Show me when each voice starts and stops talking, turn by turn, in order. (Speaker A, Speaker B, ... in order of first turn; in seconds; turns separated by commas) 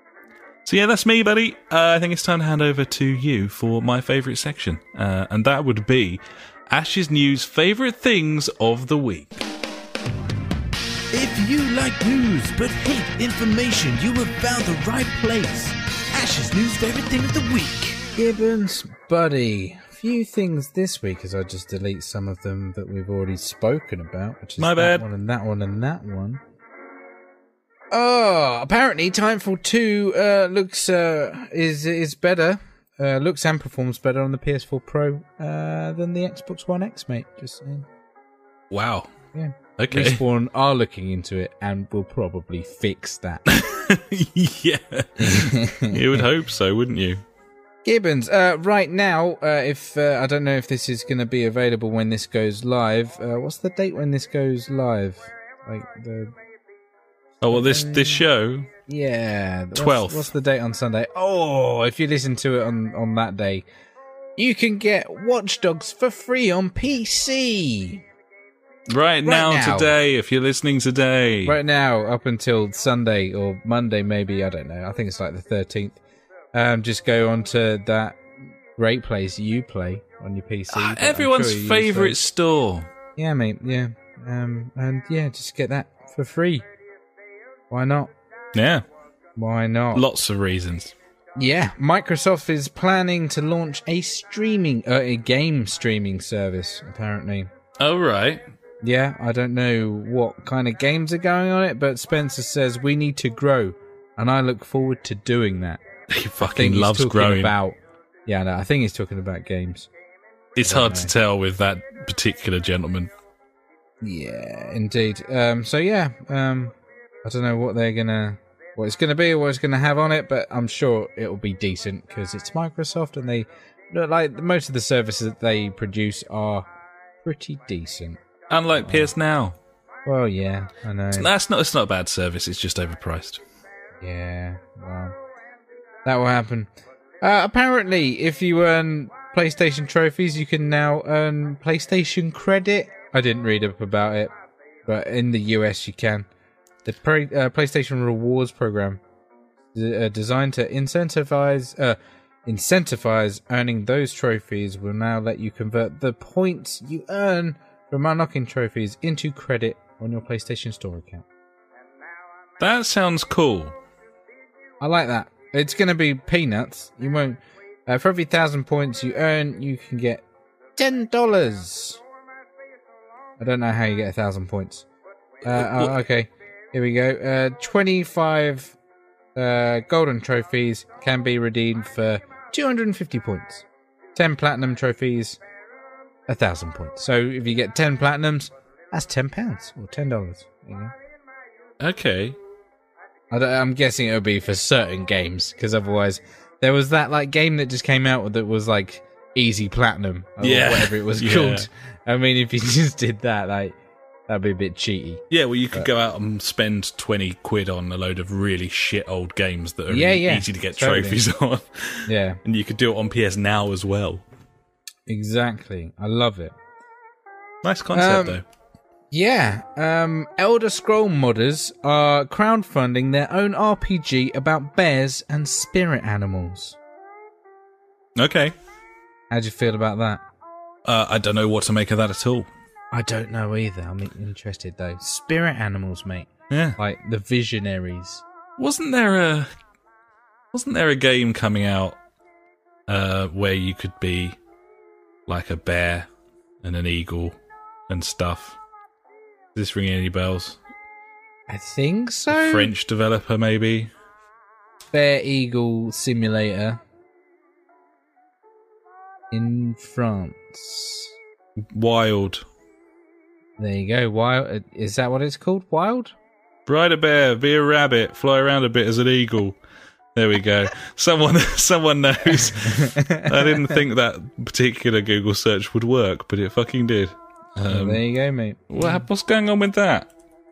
Speaker A: 0.6-9.4, Speaker B: 11.1-18.0, Speaker C: 18.1-26.4, Speaker A: 24.6-25.1, Speaker C: 27.9-37.9, Speaker A: 38.7-39.1, Speaker C: 39.3-43.5, Speaker A: 39.8-40.2, Speaker A: 43.5-47.2, Speaker C: 45.2-46.2, Speaker C: 47.8-56.3, Speaker A: 57.4-58.7, Speaker C: 57.4-58.2, Speaker C: 58.9-63.6, Speaker A: 59.8-60.3, Speaker C: 64.4-68.0, Speaker A: 68.9-71.5, Speaker C: 69.2-69.9, Speaker C: 71.4-76.0, Speaker C: 76.5-78.2, Speaker C: 78.8-82.2, Speaker A: 80.7-82.9, Speaker C: 83.2-86.6, Speaker C: 87.7-88.1, Speaker A: 88.5-88.8, Speaker C: 89.3-90.0, Speaker A: 89.9-90.9, Speaker C: 91.4-97.5, Speaker A: 97.8-98.4, Speaker C: 98.8-105.8, Speaker A: 106.1-107.5, Speaker C: 106.4-109.9, Speaker A: 110.5-113.1, Speaker C: 110.6-111.1, Speaker C: 114.0-126.7, Speaker C: 127.2-128.2, Speaker A: 128.5-129.6, Speaker C: 128.8-129.1, Speaker C: 130.0-131.3, Speaker A: 131.1-133.4, Speaker C: 134.0-135.1, Speaker C: 136.0-136.7, Speaker C: 137.2-144.3, Speaker C: 144.8-146.3, Speaker C: 146.8-149.0, Speaker C: 149.7-161.2, Speaker A: 162.6-163.8, Speaker C: 164.8-170.2, Speaker C: 170.8-172.0, Speaker C: 173.4-174.8, Speaker A: 175.4-176.0, Speaker C: 175.4-178.8, Speaker C: 179.3-185.4, Speaker C: 186.3-190.9, Speaker A: 191.8-192.4, Speaker C: 193.3-203.8, Speaker A: 200.4-201.7, Speaker C: 204.3-205.9, Speaker A: 205.3-214.2, Speaker C: 209.9-211.2, Speaker C: 212.1-212.4, Speaker C: 215.1-216.5, Speaker A: 217.6-218.4, Speaker C: 217.9-218.4, Speaker C: 219.1-226.8, Speaker A: 228.2-228.5, Speaker C: 229.3-230.2, Speaker A: 230.8-232.5, Speaker C: 232.9-238.2, Speaker A: 236.5-236.8, Speaker A: 238.6-239.5, Speaker A: 240.5-242.0, Speaker A: 242.9-244.4, Speaker A: 245.3-246.1, Speaker A: 246.6-247.4, Speaker A: 247.9-248.6, Speaker A: 249.5-250.6, Speaker C: 251.5-252.7, Speaker A: 252.3-253.9, Speaker C: 254.9-256.8, Speaker C: 259.3-261.1, Speaker A: 261.6-262.4, Speaker C: 263.6-266.1, Speaker A: 266.6-269.6, Speaker A: 270.1-278.0, Speaker C: 272.5-273.8, Speaker C: 277.7-279.0, Speaker A: 278.7-280.1